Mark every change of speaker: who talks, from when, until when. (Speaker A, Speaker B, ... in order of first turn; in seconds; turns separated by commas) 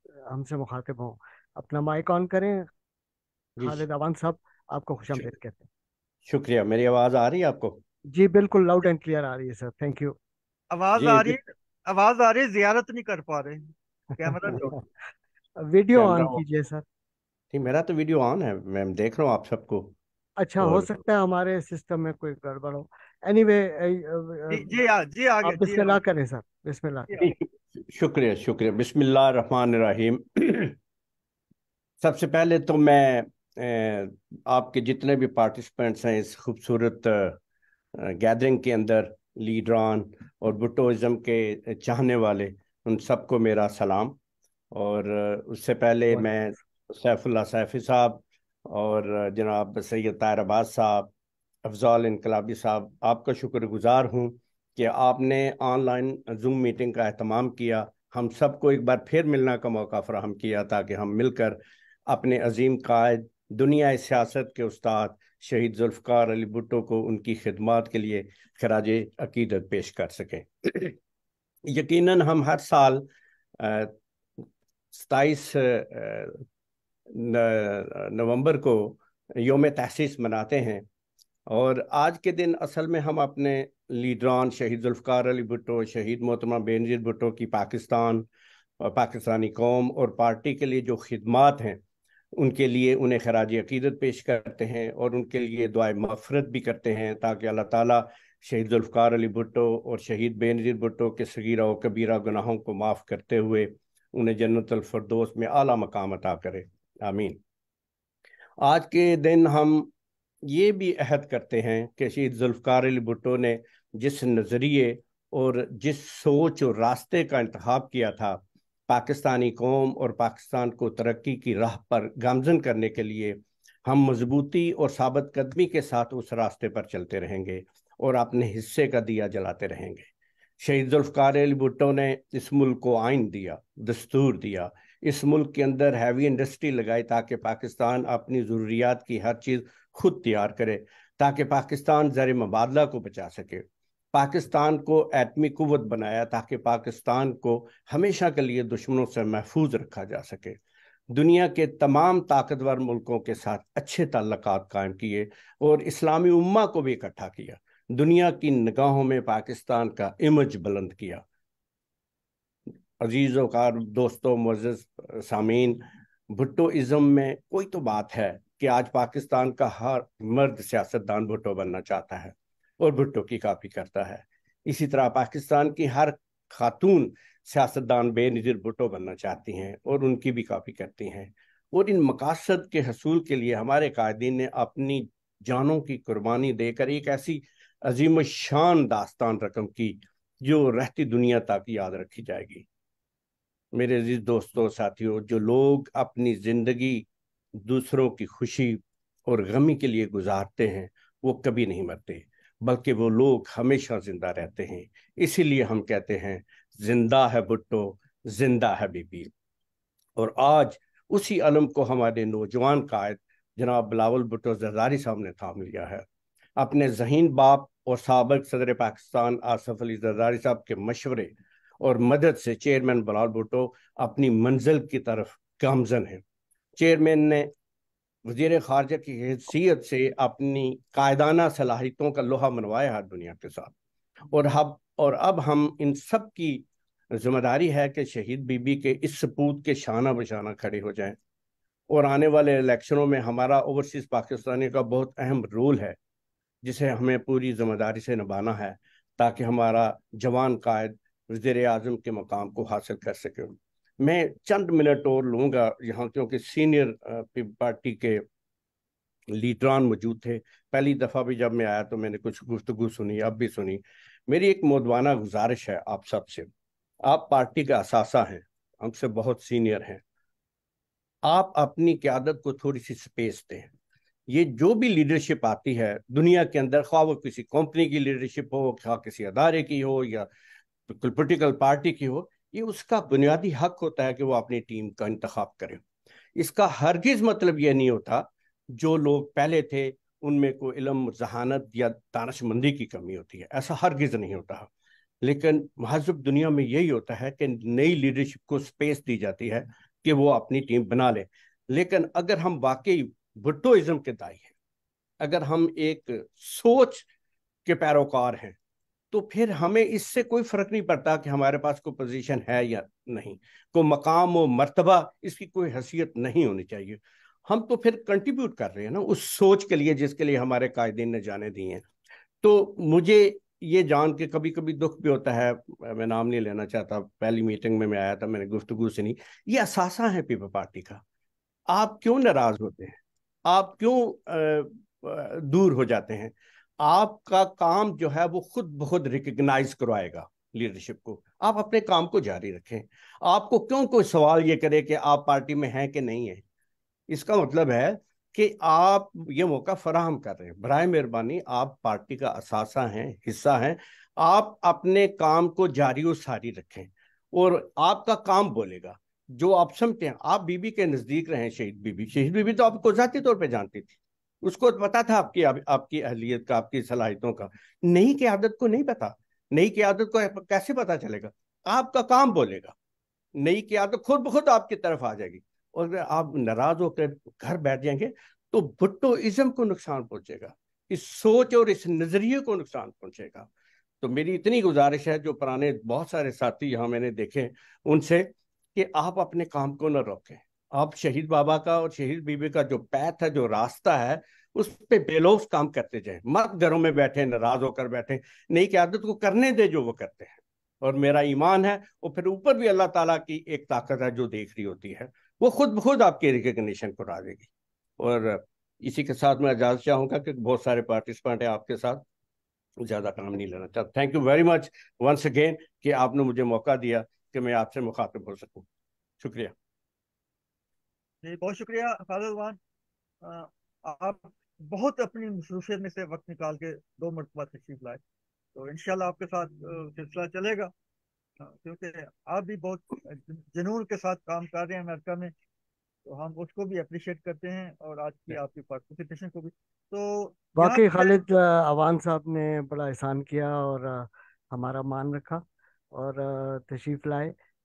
Speaker A: 0.3-2.7, Speaker B: 3.6-3.8, Speaker A: 3.6-5.7, Speaker B: 6.2-7.8, Speaker A: 8.1-10.2, Speaker C: 10.7-14.8, Speaker B: 10.9-11.3, Speaker A: 14.3-14.8, Speaker A: 15.6-16.8, Speaker B: 15.9-16.4, Speaker B: 17.5-19.9, Speaker A: 20.4-24.7, Speaker B: 20.6-20.9, Speaker C: 24.5-26.0, Speaker A: 25.4-27.1, Speaker B: 27.2-30.8, Speaker B: 32.0-37.4, Speaker B: 38.0-44.2, Speaker B: 44.7-51.1, Speaker A: 46.1-46.6, Speaker B: 51.6-71.0, Speaker B: 71.7-73.0, Speaker B: 73.6-73.9, Speaker B: 74.9-76.4, Speaker B: 77.1-80.8, Speaker B: 81.5-88.3, Speaker B: 88.8-91.8, Speaker B: 92.3-107.4, Speaker B: 108.6-109.9, Speaker B: 110.5-130.1, Speaker B: 130.6-150.6, Speaker B: 151.1-161.2, Speaker B: 163.0-192.7, Speaker B: 193.7-209.3, Speaker B: 210.2-216.0, Speaker B: 216.6-226.2, Speaker B: 226.8-227.5, Speaker B: 228.2-233.7, Speaker B: 234.3-241.2, Speaker B: 241.9-246.0, Speaker B: 246.6-258.2, Speaker B: 259.3-266.5, Speaker B: 267.0-270.0, Speaker B: 271.2-273.7, Speaker B: 274.3-280.3, Speaker B: 280.9-285.8, Speaker B: 286.4-294.7, Speaker B: 295.2-304.5, Speaker B: 305.2-307.1, Speaker B: 307.6-308.6, Speaker B: 309.1-321.9, Speaker B: 322.4-331.0, Speaker B: 331.7-346.4, Speaker B: 347.1-372.8, Speaker B: 373.4-383.5, Speaker B: 384.0-412.0, Speaker B: 412.8-418.7, Speaker B: 419.2-419.5, Speaker C: 421.2-422.6, Speaker C: 423.2-428.0, Speaker C: 428.5-430.7, Speaker C: 431.4-435.3, Speaker C: 436.1-441.2, Speaker A: 440.5-447.3